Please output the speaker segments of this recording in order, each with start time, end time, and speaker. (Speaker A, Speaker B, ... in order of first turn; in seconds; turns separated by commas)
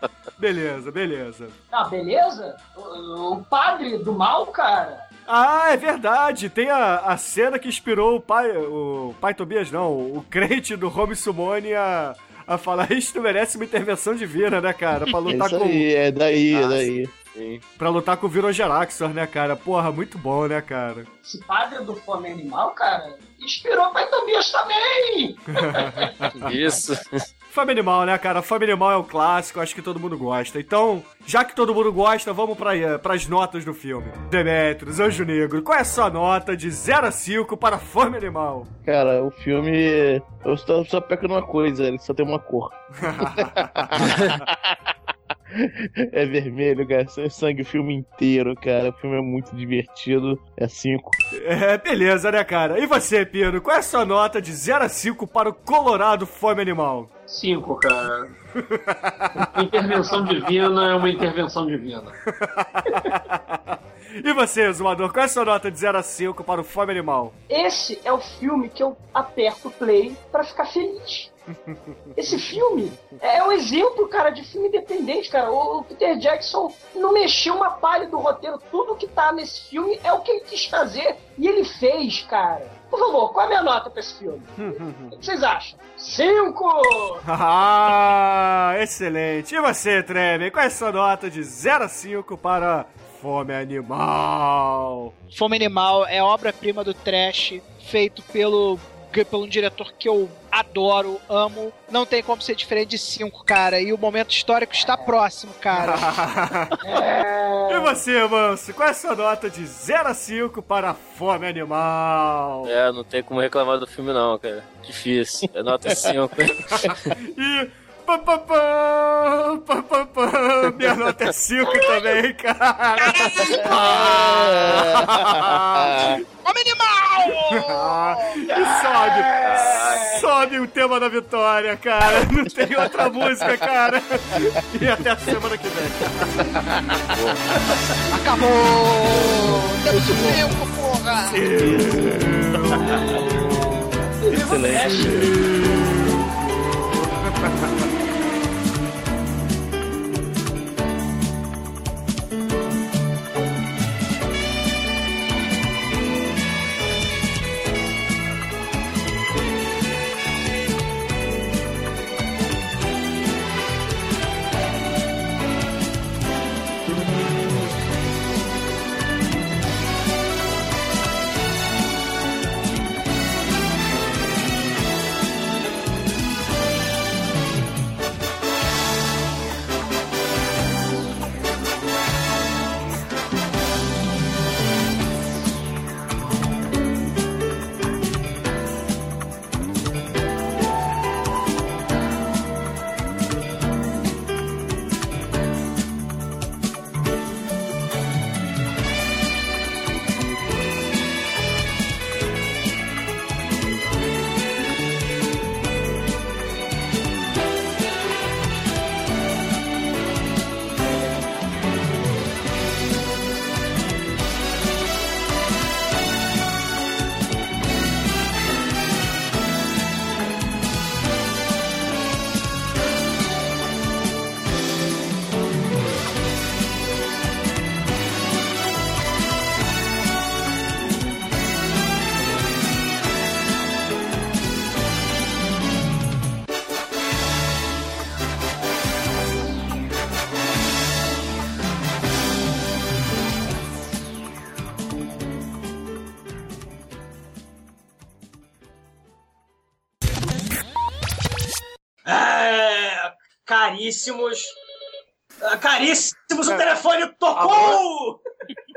Speaker A: 0.4-1.5, Speaker B: 1.7-5.0, Speaker A: 5.3-15.9, Speaker C: 15.3-17.1, Speaker D: 16.5-17.6, Speaker A: 17.8-21.1, Speaker B: 21.2-26.1, Speaker A: 25.6-26.6, Speaker D: 26.4-27.2, Speaker A: 27.5-38.7, Speaker C: 38.8-44.9, Speaker A: 43.0-44.1, Speaker D: 44.0-44.4, Speaker C: 45.5-51.2, Speaker A: 51.3-57.1, Speaker E: 57.3-58.3, Speaker A: 58.5-60.3, Speaker E: 59.4-62.1, Speaker A: 62.4-67.3, Speaker B: 67.5-71.3, Speaker A: 71.5-73.1, Speaker B: 72.2-87.2, Speaker A: 84.6-85.1, Speaker A: 87.2-95.1, Speaker F: 95.3-106.0, Speaker A: 105.7-106.8, Speaker B: 106.8-108.0, Speaker A: 107.7-112.7, Speaker D: 112.6-117.2, Speaker A: 116.7-126.2, Speaker F: 123.0-123.8, Speaker C: 123.5-126.2, Speaker F: 126.4-129.4, Speaker A: 127.3-136.9, Speaker D: 129.4-130.1, Speaker C: 136.4-137.0, Speaker D: 137.1-137.4, Speaker F: 138.1-141.4, Speaker C: 139.2-140.5, Speaker A: 141.2-143.1, Speaker C: 141.6-145.3, Speaker B: 142.9-143.2, Speaker B: 144.2-145.4, Speaker A: 144.7-147.9, Speaker B: 252.1-254.6, Speaker B: 255.4-258.2, Speaker E: 257.3-257.8